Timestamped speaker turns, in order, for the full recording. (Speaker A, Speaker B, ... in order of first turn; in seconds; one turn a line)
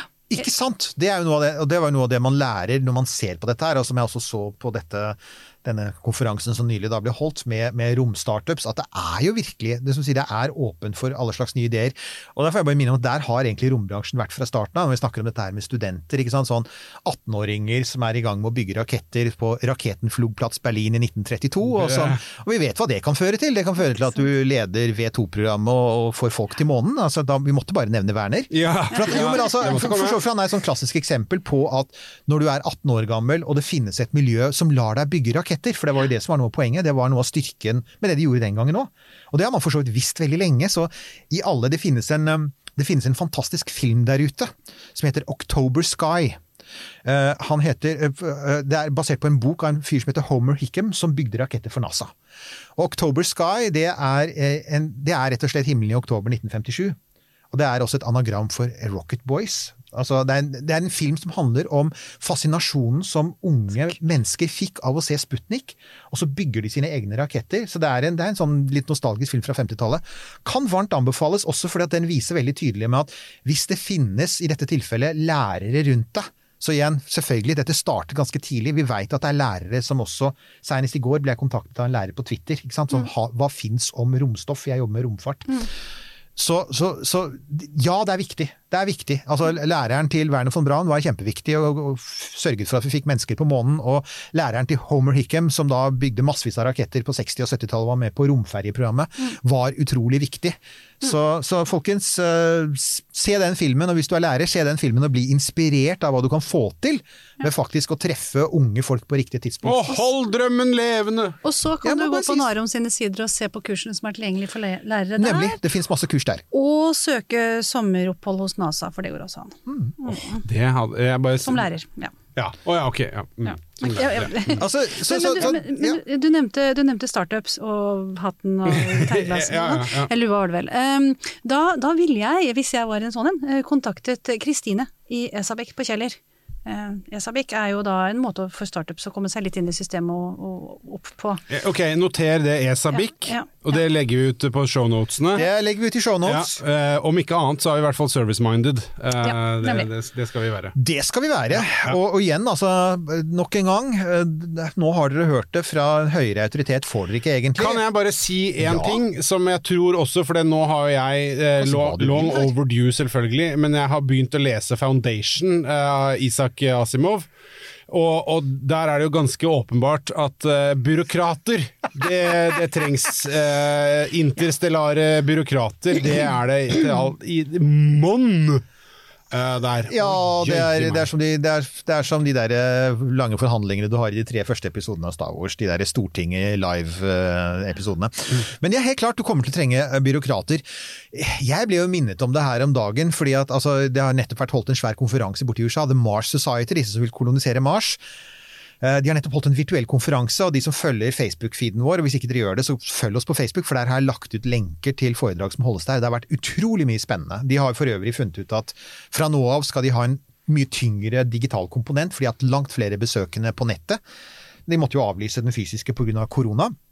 Speaker A: 0.3-46.4
Speaker B: 21.7-22.2
Speaker B: 28.5-30.2
Speaker A: 47.0-52.1
Speaker A: 52.8-57.0
Speaker A: 57.5-85.7
Speaker A: 86.4-109.9
Speaker B: 109.6-111.4
Speaker C: 111.4-115.6
Speaker A: 111.8-112.5
Speaker A: 115.2-116.4
Speaker C: 116.5-120.4
Speaker A: 119.7-120.0
Speaker B: 120.5-121.6
Speaker C: 121.4-122.1
Speaker B: 122.3-124.6
Speaker C: 123.5-141.4
Speaker A: 124.6-126.0
Speaker B: 128.7-130.1
Speaker B: 141.5-145.4
Speaker C: 142.9-143.6
Speaker A: 145.3-146.6
Speaker B: 146.2-150.8
Speaker C: 149.2-149.9
Speaker A: 150.8-157.8
Speaker B: 157.6-167.3
Speaker A: 158.6-159.0
Speaker A: 161.6-162.5
Speaker B: 167.9-178.6
Speaker B: 179.3-181.1
Speaker A: 179.9-198.0
Speaker A: 198.8-214.0
Speaker A: 214.7-216.8